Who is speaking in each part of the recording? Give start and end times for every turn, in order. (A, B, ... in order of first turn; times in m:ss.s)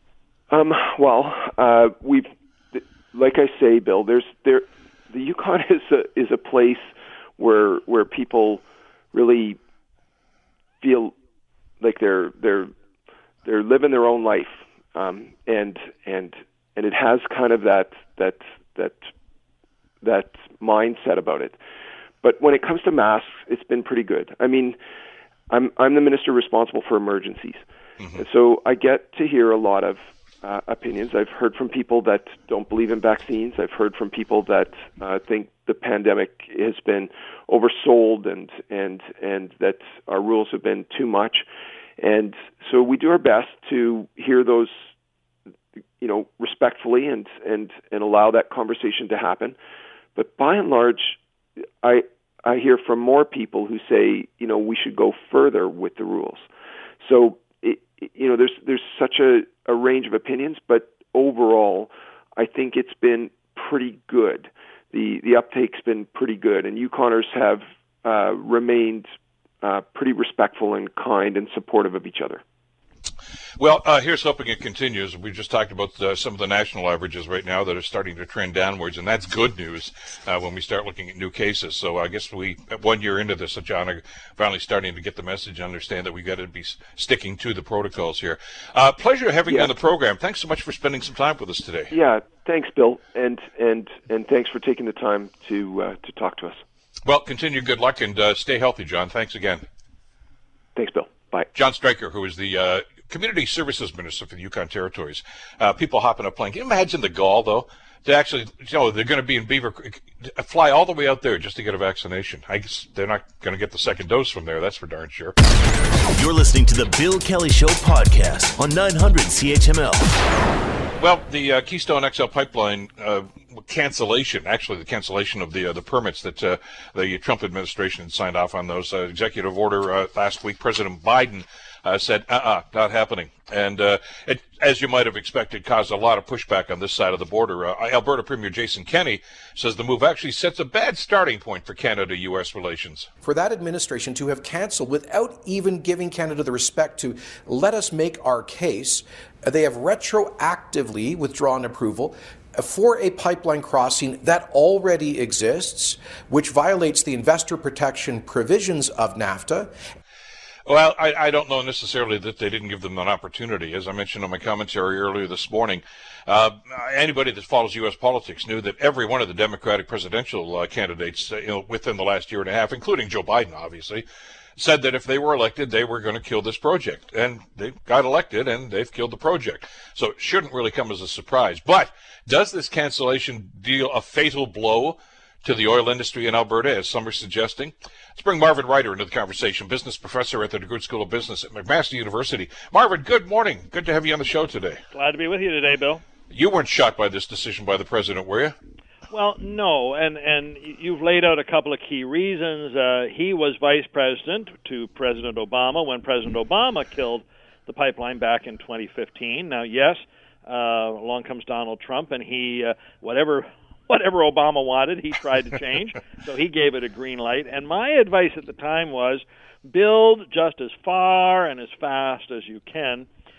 0:00.5-0:06.8 A
0:07.4-0:09.6 A
0:10.8-0:11.1 A
0:11.8-0:12.7 A
0:13.4-0:19.0 A
0:20.0-0:21.6 A
0:22.2-0:24.8 A
0:25.5-0:27.6 A
0:28.0-0:28.2 B
0:28.2-0:41.4 A
0:42.0-0:44.7 A
0:46.0-0:49.6 A
0:50.2-0:51.2 A
0:51.8-0:56.5 A
0:57.0-1:09.1 A
1:09.6-1:12.4 A
1:13.6-1:31.9 B
1:29.5-1:29.7 A
1:31.9-1:36.6 A
1:37.0-1:39.7 B
1:40.8-1:41.5 A
1:41.5-1:55.4 B
1:56.2-2:00.1 C
2:01.0-2:23.1 B
2:23.2-2:39.7 D
2:40.7-2:54.0 B
2:54.6-3:14.8 B
3:14.9-3:16.0 E
3:16.3-3:18.6 B
3:19.1-3:43.1 E